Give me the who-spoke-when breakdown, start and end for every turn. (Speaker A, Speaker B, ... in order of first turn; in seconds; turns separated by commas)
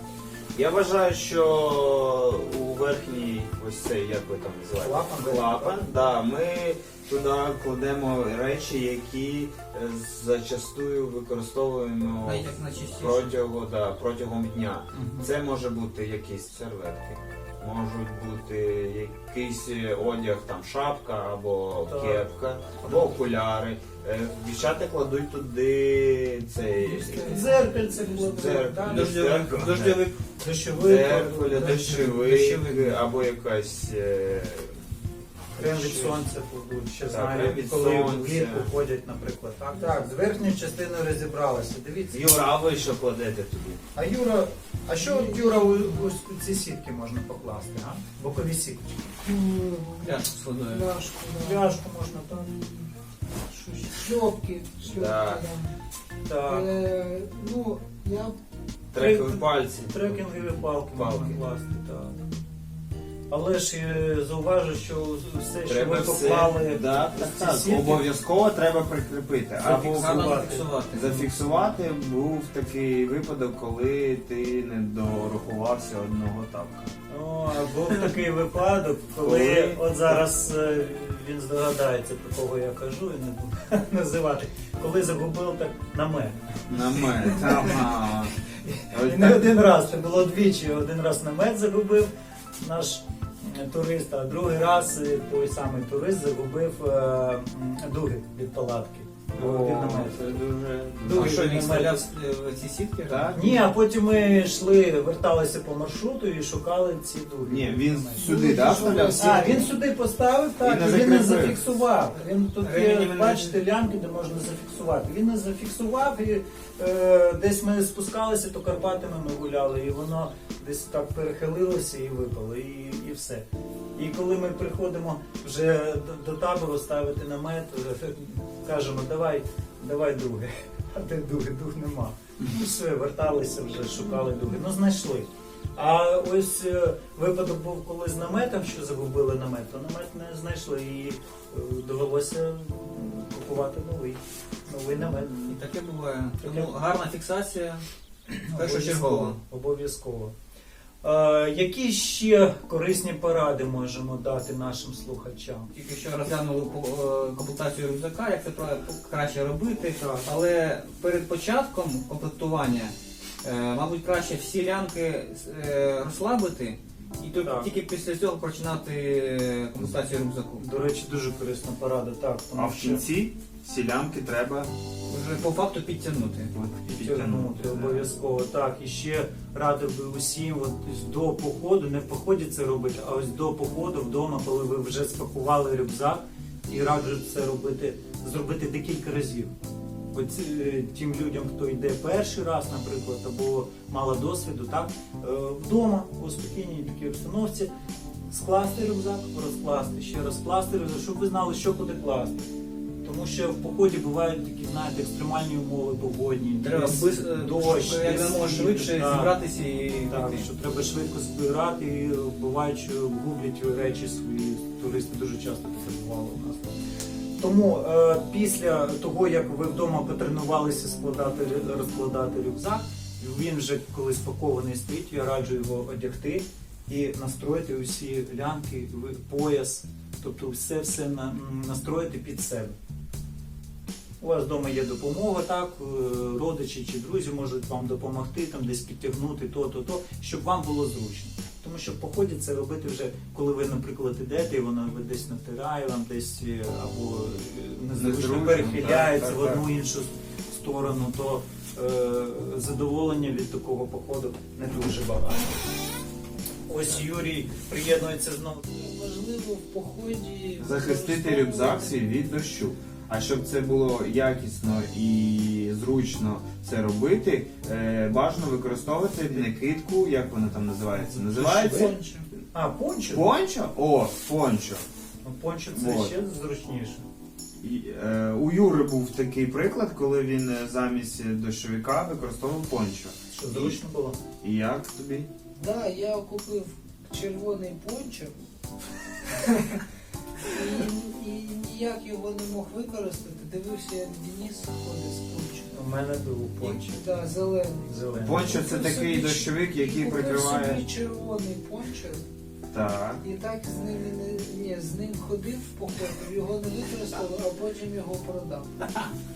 Speaker A: 0.5-30.0, Speaker B: 4.8-5.9, Speaker C: 12.2-13.3, Speaker B: 14.9-15.3, Speaker B: 21.9-22.2, Speaker B: 22.8-23.1, Speaker D: 26.8-29.1, Speaker B: 27.2-29.0, Speaker C: 28.8-30.2, Speaker B: 30.4-32.3, Speaker A: 30.8-34.7, Speaker C: 31.5-33.0, Speaker B: 35.5-42.2, Speaker A: 35.6-36.2, Speaker A: 37.1-38.7, Speaker A: 42.1-43.8, Speaker B: 44.0-49.1, Speaker D: 44.9-46.1, Speaker D: 49.2-52.9, Speaker C: 50.0-50.9, Speaker B: 51.4-52.6, Speaker D: 53.6-55.7, Speaker A: 54.8-55.5, Speaker B: 56.3-56.7, Speaker D: 56.4-58.4, Speaker A: 58.9-61.4, Speaker B: 58.9-62.2, Speaker B: 63.3-68.0, Speaker A: 65.7-76.9, Speaker B: 69.6-70.7, Speaker C: 69.8-71.2, Speaker B: 77.1-87.8, Speaker A: 79.2-80.2, Speaker A: 86.7-88.3, Speaker B: 88.6-92.1, Speaker A: 88.9-89.7, Speaker B: 92.6-100.4, Speaker A: 99.3-101.4, Speaker B: 101.0-102.0, Speaker C: 101.1-103.5, Speaker A: 103.0-103.4, Speaker B: 103.3-108.3, Speaker A: 107.5-109.7, Speaker D: 108.2-109.7, Speaker B: 109.1-145.6, Speaker A: 110.6-111.6, Speaker C: 112.6-113.6, Speaker C: 145.0-149.4, Speaker B: 146.4-146.7, Speaker B: 148.4-150.3, Speaker B: 151.0-155.7, Speaker C: 155.7-170.7, Speaker B: 167.4-167.7, Speaker B: 170.6-173.0, Speaker A: 172.6-174.7, Speaker C: 175.1-176.5, Speaker A: 176.5-178.1, Speaker B: 176.9-189.6, Speaker B: 190.1-197.7, Speaker B: 198.3-202.5, Speaker B: 203.0-209.3, Speaker C: 206.6-210.5, Speaker B: 210.1-216.8, Speaker B: 217.4-232.8, Speaker B: 234.2-255.6, Speaker A: 248.0-249.7, Speaker B: 256.7-258.6, Speaker D: 258.7-262.0, Speaker A: 260.6-271.9, Speaker B: 270.9-271.9, Speaker D: 271.3-272.3, Speaker B: 272.5-273.3, Speaker A: 273.1-274.9, Speaker B: 275.2-277.1, Speaker A: 275.7-276.2, Speaker A: 277.6-283.8, Speaker B: 283.3-284.2, Speaker A: 284.4-285.3, Speaker D: 285.6-288.4, Speaker D: 289.3-289.8, Speaker D: 290.4-295.7, Speaker B: 295.7-297.0, Speaker D: 296.6-297.9, Speaker B: 297.8-298.7, Speaker A: 298.2-300.8, Speaker D: 298.5-302.2, Speaker A: 302.7-303.2, Speaker D: 303.2-309.0